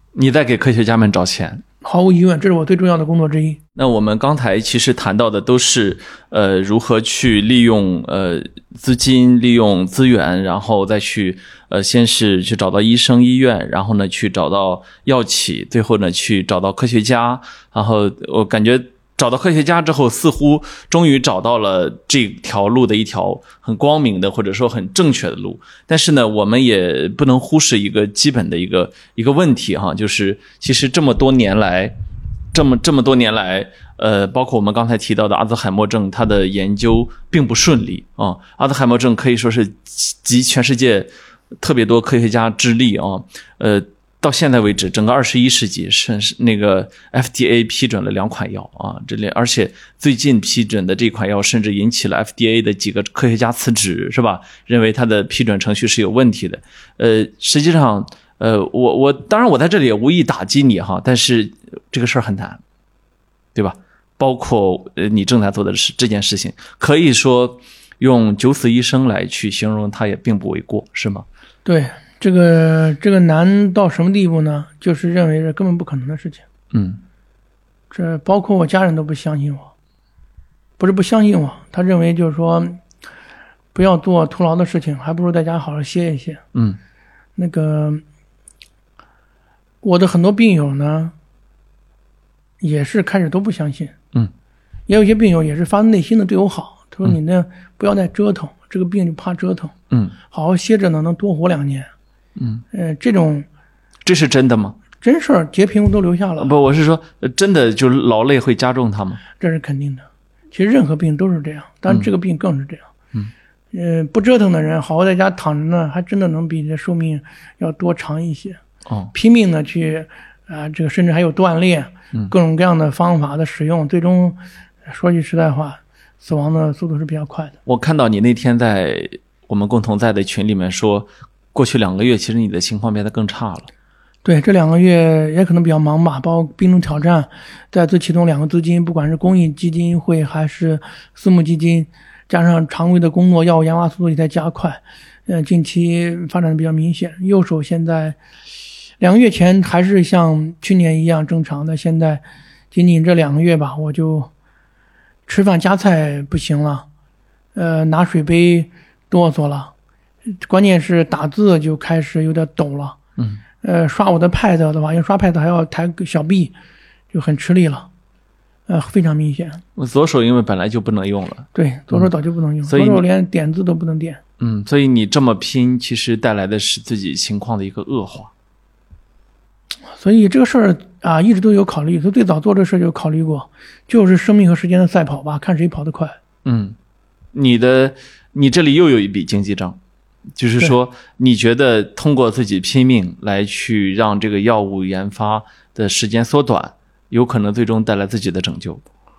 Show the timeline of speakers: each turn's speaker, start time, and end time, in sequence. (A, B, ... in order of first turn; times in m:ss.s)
0:00.2-0:01.6 A
0:01.8-0:03.6 B
0:03.8-0:32.0 A
0:32.5-1:02.6 A
1:03.6-1:11.3 A
1:11.6-1:16.4 B
1:16.7-1:17.0 A
1:17.9-1:19.7 B
1:20.8-1:22.8 B
1:23.7-1:26.4 B
1:27.4-1:28.0 B
1:29.8-1:31.1 B
1:32.6-1:34.0 B
1:34.9-1:39.7 B
1:40.3-1:41.9 B
1:42.4-1:42.6 A
1:42.7-1:43.5 B
1:44.0-1:44.8 A
1:45.0-1:46.5 B
1:46.4-1:49.2 A
1:49.4-1:52.9 B
1:53.7-1:58.6 B
1:59.1-2:07.6 B
2:07.7-2:13.7 A
2:14.2-2:28.2 B
2:29.0-2:34.3 B
2:35.3-2:36.9 B
2:37.6-2:39.7 B
2:40.4-2:43.0 B
2:43.6-2:46.5 B
2:47.1-2:47.9 B
2:48.7-2:49.6 B
2:49.8-2:52.1 A
2:51.6-2:54.2 B
2:52.7-2:53.0 A
2:54.4-2:58.3 A
2:59.9-3:06.2 B
3:06.4-3:06.8 A
3:07.3-3:09.8 A
3:10.4-3:18.8 A